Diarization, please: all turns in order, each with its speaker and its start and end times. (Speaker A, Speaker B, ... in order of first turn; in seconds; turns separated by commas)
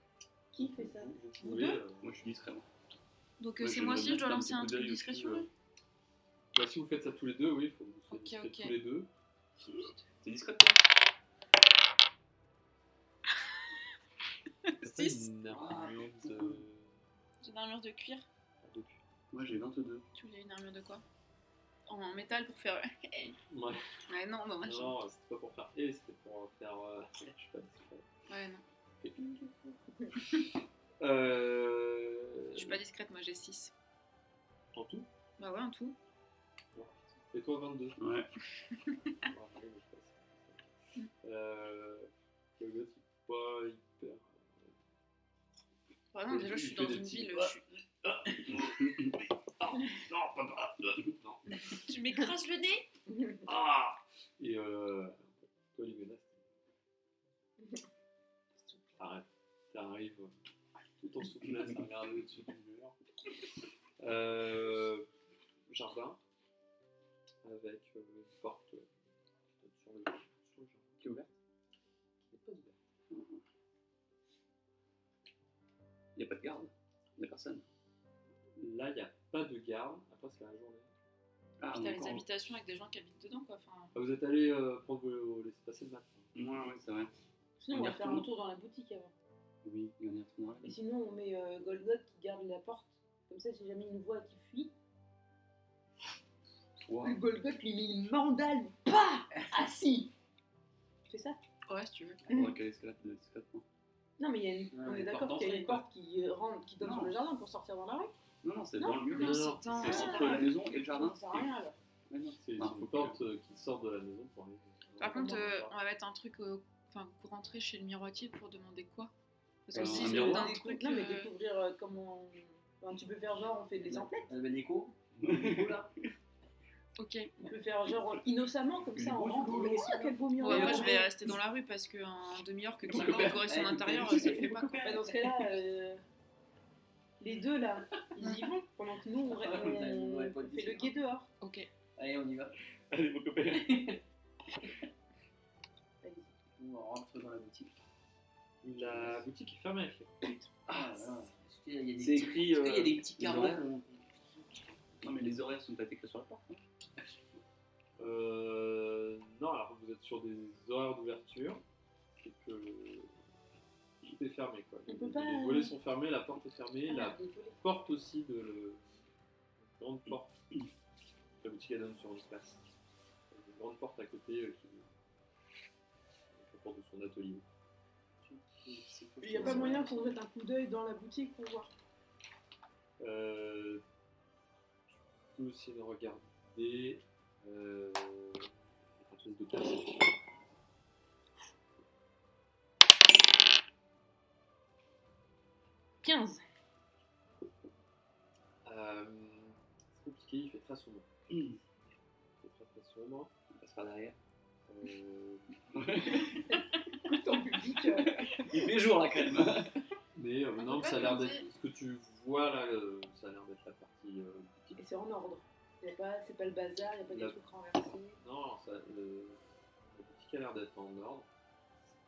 Speaker A: 0.5-1.8, Speaker B: 0.6-2.2, Speaker C: 2.0-2.7, Speaker D: 3.4-5.5, Speaker C: 3.6-5.5, Speaker B: 6.5-9.1, Speaker D: 8.1-8.8, Speaker D: 9.7-10.0, Speaker C: 10.2-10.8, Speaker D: 14.7-15.2, Speaker B: 14.8-16.9, Speaker C: 15.5-16.6, Speaker D: 17.4-18.2, Speaker B: 18.6-19.5, Speaker C: 19.3-20.0, Speaker D: 20.1-21.0, Speaker D: 21.9-23.4, Speaker B: 23.5-23.8, Speaker D: 24.1-24.9, Speaker B: 24.6-28.1, Speaker D: 28.3-28.6, Speaker A: 29.2-30.2, Speaker B: 31.0-32.8, Speaker D: 32.5-33.7, Speaker B: 34.7-35.1, Speaker D: 35.4-36.0, Speaker B: 36.7-38.0, Speaker C: 38.0-38.3, Speaker B: 39.3-40.6, Speaker B: 41.2-44.7, Speaker D: 46.1-47.6, Speaker B: 46.2-49.1, Speaker C: 48.6-49.1, Speaker B: 49.6-51.6, Speaker D: 51.7-52.9, Speaker A: 53.1-53.4, Speaker B: 53.4-56.4, Speaker B: 59.0-60.3, Speaker B: 61.0-63.0, Speaker B: 64.0-65.1, Speaker B: 65.7-66.2, Speaker B: 67.4-68.9, Speaker B: 69.6-71.3, Speaker B: 72.3-72.8, Speaker C: 73.1-73.4, Speaker C: 76.1-77.6, Speaker B: 78.6-80.9, Speaker C: 81.6-82.2, Speaker D: 81.7-83.9, Speaker B: 83.9-86.3, Speaker C: 86.3-87.1, Speaker A: 87.6-89.1, Speaker C: 87.7-88.3, Speaker C: 89.6-90.8, Speaker A: 90.6-94.7, Speaker C: 96.8-97.2, Speaker A: 97.0-100.1, Speaker A: 101.1-101.4, Speaker D: 101.7-102.2, Speaker C: 102.3-103.6, Speaker A: 102.3-102.5, Speaker A: 104.2-108.2, Speaker E: 104.7-105.8, Speaker C: 106.8-107.2, Speaker C: 108.4-111.5, Speaker A: 108.8-111.8, Speaker D: 109.1-110.5, Speaker B: 109.1-110.0, Speaker C: 112.1-113.2, Speaker B: 112.4-115.7, Speaker D: 115.0-119.1, Speaker A: 115.0-115.5, Speaker D: 119.7-121.3, Speaker A: 119.7-124.3, Speaker C: 119.7-120.5, Speaker E: 123.8-125.9, Speaker C: 125.2-125.9, Speaker D: 127.0-127.3, Speaker A: 127.4-131.1, Speaker C: 128.9-131.1, Speaker D: 130.4-134.8, Speaker E: 130.6-130.8, Speaker C: 132.9-133.5, Speaker E: 132.9-135.6, Speaker A: 134.1-136.0, Speaker A: 137.2-141.3, Speaker D: 138.2-138.5, Speaker E: 139.2-140.9, Speaker D: 141.4-141.7, Speaker E: 141.9-142.6, Speaker C: 142.9-144.0, Speaker A: 146.0-146.3, Speaker E: 146.6-147.8, Speaker B: 148.6-150.1, Speaker E: 148.8-149.2, Speaker A: 150.2-150.5, Speaker E: 150.7-153.9, Speaker C: 150.7-151.1, Speaker C: 152.0-153.8, Speaker C: 155.0-156.6, Speaker E: 157.0-157.4, Speaker B: 158.0-161.6, Speaker B: 162.2-163.1, Speaker B: 164.0-168.9, Speaker A: 164.9-165.7, Speaker A: 166.9-167.6, Speaker B: 169.6-170.3, Speaker B: 171.4-172.6, Speaker B: 173.3-174.9, Speaker B: 176.3-177.4, Speaker E: 178.2-180.2, Speaker A: 179.2-181.7, Speaker C: 179.4-179.7, Speaker B: 183.0-183.8, Speaker B: 185.3-190.1, Speaker A: 196.0-196.4, Speaker B: 198.6-201.1, Speaker C: 201.3-201.6, Speaker B: 202.4-203.3, Speaker C: 203.5-204.1, Speaker B: 204.7-206.2, Speaker C: 205.7-206.6, Speaker A: 206.5-208.5, Speaker C: 208.3-209.8, Speaker B: 210.1-214.8, Speaker D: 210.6-211.4, Speaker A: 214.8-218.2, Speaker B: 217.1-217.4, Speaker B: 218.2-221.3